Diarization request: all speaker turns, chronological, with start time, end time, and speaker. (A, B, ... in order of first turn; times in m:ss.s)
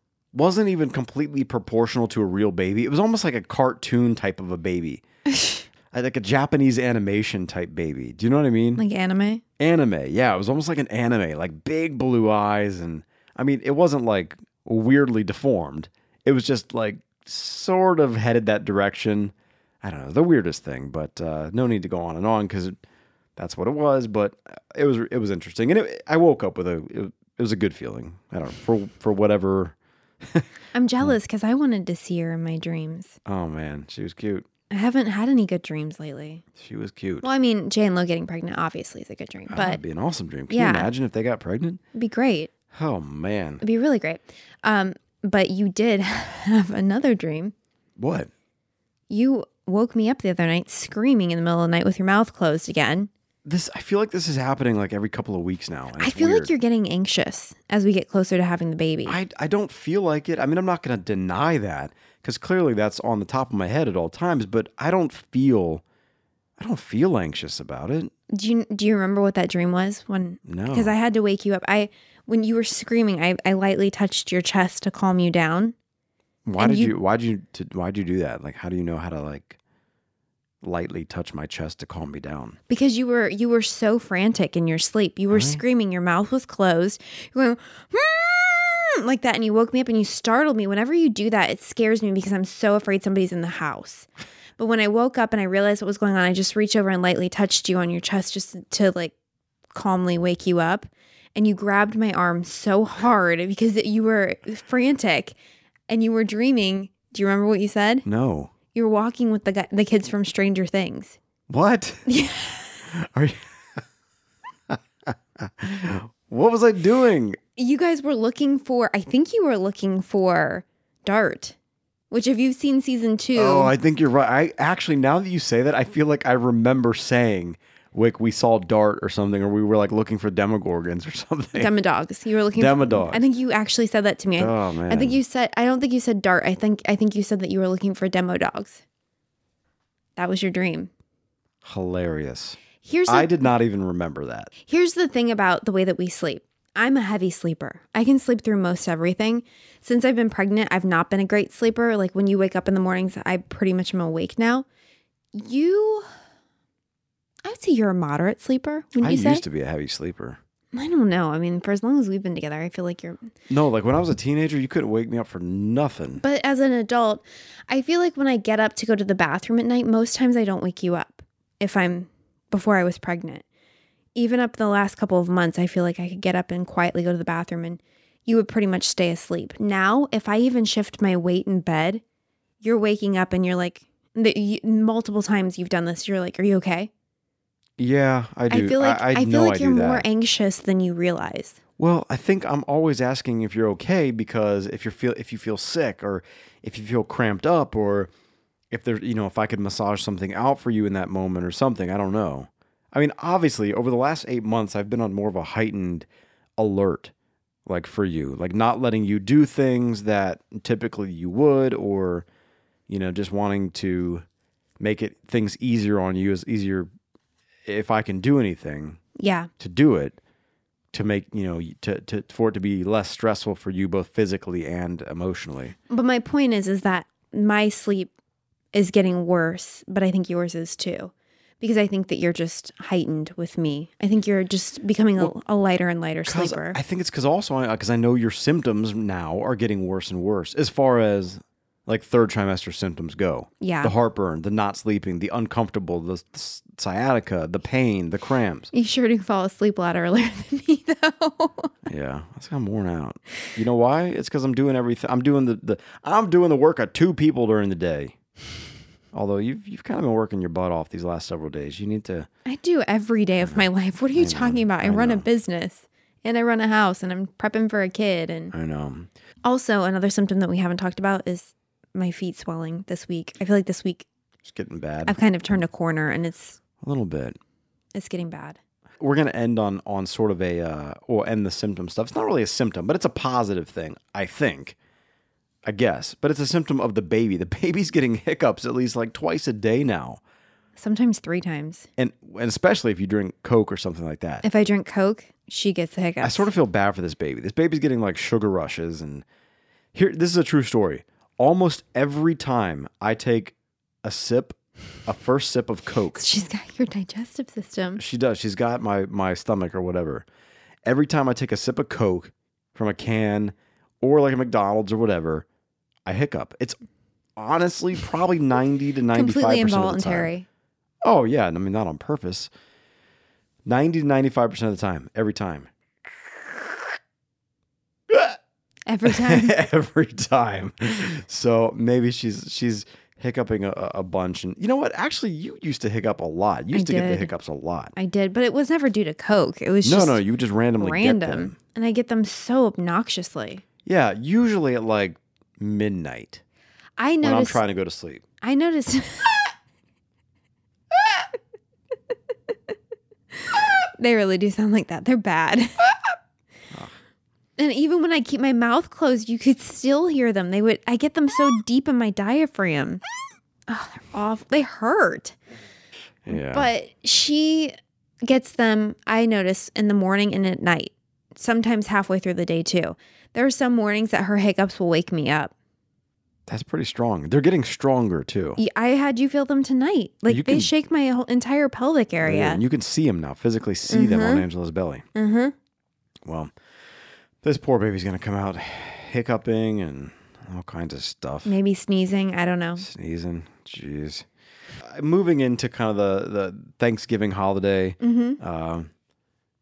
0:00.3-0:05.0 A
0:05.3-0:05.6 B
0:05.9-0:08.8 A
0:08.8-0:09.4 B
0:09.6-0:22.8 A
0:23.4-0:30.5 A
0:30.7-0:33.2 B
0:33.3-0:34.5 A
0:34.7-0:36.4 B
0:36.6-0:37.3 A
0:37.2-0:39.8 B
0:39.5-0:41.8 A
0:40.5-0:40.9 B
0:41.9-0:42.5 B
0:42.7-0:43.6 A
0:43.6-0:47.5 B
0:48.0-0:48.3 A
0:49.1-0:53.1 B
0:53.4-0:56.5 A
0:56.0-0:59.2 B
0:59.1-1:05.8 A
1:06.6-1:08.1 A
1:08.3-1:15.8 B
1:10.4-1:10.9 A
1:16.5-1:19.6 A
1:16.6-1:16.9 B
1:20.6-1:22.6 A
1:22.7-1:39.1 B
1:25.3-1:25.6 A
1:39.7-1:45.4 B
1:45.9-1:48.1 B
1:48.0-1:48.5 A
1:48.7-1:51.2 B
1:51.5-1:52.1 A
1:52.1-1:52.9 B
1:52.9-1:53.8 A
1:54.7-1:57.4 A
1:57.6-2:01.6 B
2:02.1-2:03.8 B
2:03.4-2:11.7 A
2:11.6-2:18.8 B
2:12.5-2:13.2 A
2:14.4-2:15.2 A
2:20.2-2:20.9 B
2:21.6-2:24.5 A
2:22.8-2:23.4 B
2:24.7-2:34.7 B
2:35.3-2:36.1 B
2:37.4-2:39.4 B
2:39.0-2:40.4 A
2:40.7-2:43.2 B
2:43.5-2:46.2 A
2:46.2-2:53.4 B
2:54.2-3:02.0 B
3:02.6-3:06.9 B
3:07.8-3:10.1 A
3:08.5-3:11.6 B
3:11.8-3:18.1 A
3:18.7-3:27.1 A
3:27.7-3:32.3 A
3:32.9-3:34.2 A
3:34.8-3:36.9 A
3:37.7-3:39.0 A
3:39.2-3:39.5 B
3:39.6-3:40.2 A
3:40.9-3:45.8 A
3:45.9-3:48.1 B
3:48.7-3:56.8 B
3:56.3-4:08.7 A
4:03.6-4:03.9 B
4:08.7-4:11.8 B
4:11.9-4:18.2 A
4:19.1-4:22.3 A
4:22.5-4:28.5 B
4:23.4-4:25.3 A
4:28.5-4:29.1 A
4:29.4-4:34.1 B
4:34.4-4:35.2 A
4:35.1-4:36.6 B
4:36.8-4:37.4 A
4:38.0-4:38.6 B
4:39.0-4:44.8 A
4:45.6-4:50.2 A
4:50.8-4:51.9 B
4:52.0-4:54.4 A
4:54.4-4:56.5 B
4:56.2-4:59.2 A
4:59.9-5:06.3 A
5:06.2-5:08.0 B
5:08.0-5:10.2 A
5:10.8-5:15.5 A
5:16.1-5:16.8 A
5:17.4-5:20.3 A
5:19.1-5:20.5 B
5:21.0-5:22.5 A
5:23.6-5:27.0 A
5:28.1-5:28.4 A
5:28.9-5:29.6 B
5:29.0-5:37.9 A
5:36.7-5:37.3 B
5:38.0-5:40.2 B
5:39.8-5:41.6 A
5:40.8-5:43.6 B
5:43.8-5:46.4 A
5:47.0-5:47.6 B
5:47.2-5:48.2 A
5:48.4-5:49.5 B
5:53.3-5:56.1 B
5:57.6-6:03.0 B
6:03.7-6:05.4 B
6:06.3-6:06.7 A
6:06.3-6:15.5 B
6:16.5-6:18.6 A
6:18.6-6:22.6 B
6:20.3-6:20.7 A
6:22.2-6:25.0 A
6:23.9-6:24.5 B
6:25.2-6:25.5 B
6:26.2-6:26.5 A
6:27.4-6:31.5 A
6:31.4-6:32.9 B
6:32.8-6:34.3 A
6:34.8-6:38.9 A
6:38.0-6:38.4 B